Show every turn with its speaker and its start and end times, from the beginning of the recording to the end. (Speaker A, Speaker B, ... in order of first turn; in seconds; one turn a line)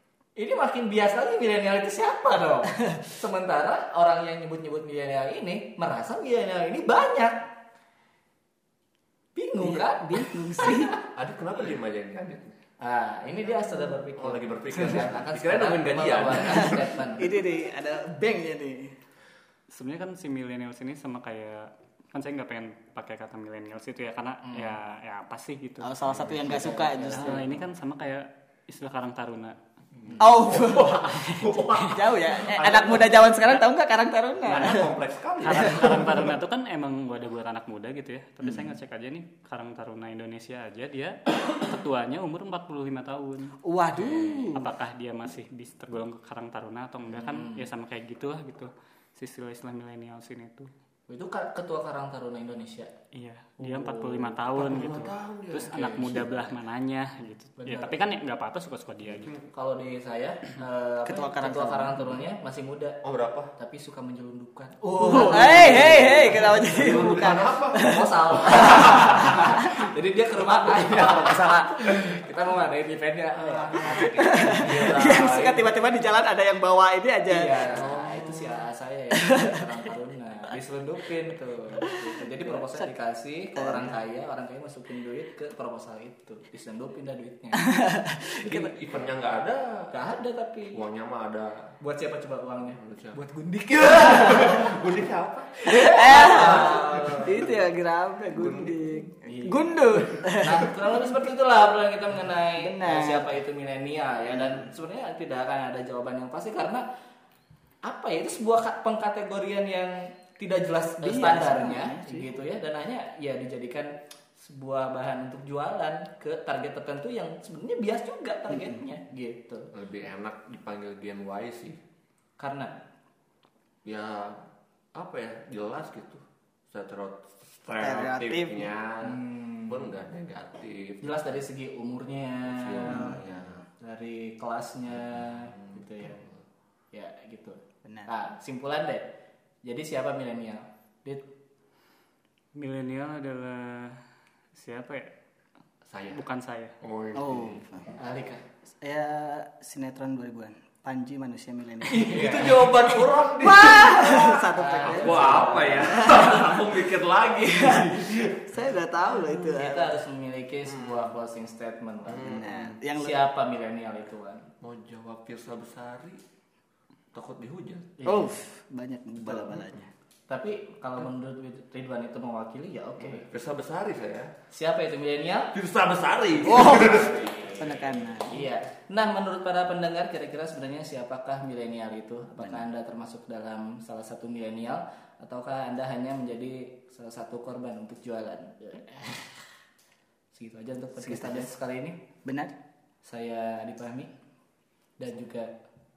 Speaker A: 0.4-7.5
Speaker A: 9.3-10.9
Speaker B: 9.6-11.0
Speaker C: 11.1-12.5
Speaker A: 12.8-17.2
Speaker C: 14.1-16.9
Speaker B: 16.5-18.9
Speaker D: 19.7-29.6
Speaker A: 24.4-24.8
Speaker B: 25.8-27.4
Speaker A: 26.5-27.4
Speaker C: 30.1-33.6
Speaker B: 30.2-34.9
Speaker C: 34.4-36.3
Speaker D: 35.4-43.6
Speaker B: 35.5-36.0
Speaker B: 38.4-38.7
Speaker B: 43.6-44.7
Speaker C: 44.1-44.5
Speaker D: 44.5-50.7
Speaker A: 47.1-47.6
Speaker A: 51.1-52.9
Speaker D: 53.1-59.3
Speaker A: 53.6-54.3
Speaker C: 54.5-56.5
Speaker A: 57.6-58.0
Speaker C: 59.1-59.4
Speaker A: 59.5-63.0
Speaker B: 61.0-62.1
Speaker C: 63.0-63.5
Speaker A: 63.5-75.1
Speaker B: 65.0-68.6
Speaker C: 65.5-69.3
Speaker C: 73.5-75.7
Speaker B: 73.8-77.8
Speaker A: 77.2-87.7
Speaker C: 77.7-78.5
Speaker B: 79.2-79.6
Speaker B: 82.4-82.9
Speaker B: 83.5-84.0
Speaker B: 87.7-88.6
Speaker C: 88.4-89.8
Speaker A: 89.9-90.8
Speaker C: 90.7-91.6
Speaker A: 91.8-94.8
Speaker C: 92.7-93.2
Speaker C: 93.8-97.5
Speaker A: 95.6-97.4
Speaker B: 95.7-100.7
Speaker C: 98.3-99.0
Speaker A: 99.2-106.8
Speaker B: 102.6-103.3
Speaker A: 107.8-119.7
Speaker B: 111.0-112.3
Speaker C: 119.7-121.8
Speaker A: 122.4-122.7
Speaker C: 123.8-124.4
Speaker C: 124.9-131.3
Speaker B: 127.8-128.7
Speaker A: 129.0-129.9
Speaker A: 131.0-136.2
Speaker C: 132.5-133.6
Speaker C: 134.9-136.4
Speaker A: 136.9-139.1
Speaker A: 139.6-141.2
Speaker D: 142.6-144.0
Speaker D: 144.5-145.1
Speaker C: 145.8-146.2
Speaker D: 146.1-146.7
Speaker C: 146.8-147.6
Speaker B: 147.1-147.9
Speaker A: 148.0-148.4
Speaker B: 148.8-152.5
Speaker A: 151.9-152.7
Speaker C: 151.9-158.5
Speaker B: 153.4-156.6
Speaker A: 154.5-156.1
Speaker B: 157.7-159.9
Speaker A: 159.3-162.4
Speaker C: 160.7-161.1
Speaker C: 162.1-162.8
Speaker B: 162.2-163.2
Speaker A: 162.9-164.4
Speaker C: 164.6-166.2
Speaker C: 167.1-168.0
Speaker A: 168.0-168.4
Speaker B: 168.1-169.9
Speaker A: 169.2-169.6
Speaker A: 170.3-173.3
Speaker C: 173.1-174.3
Speaker A: 174.5-175.5
Speaker C: 175.5-177.2
Speaker A: 176.3-189.5
Speaker B: 176.4-178.5
Speaker B: 182.4-182.6
Speaker A: 190.3-192.0
Speaker B: 191.0-191.5
Speaker B: 192.2-192.6
Speaker A: 193.0-194.1
Speaker A: 195.0-195.5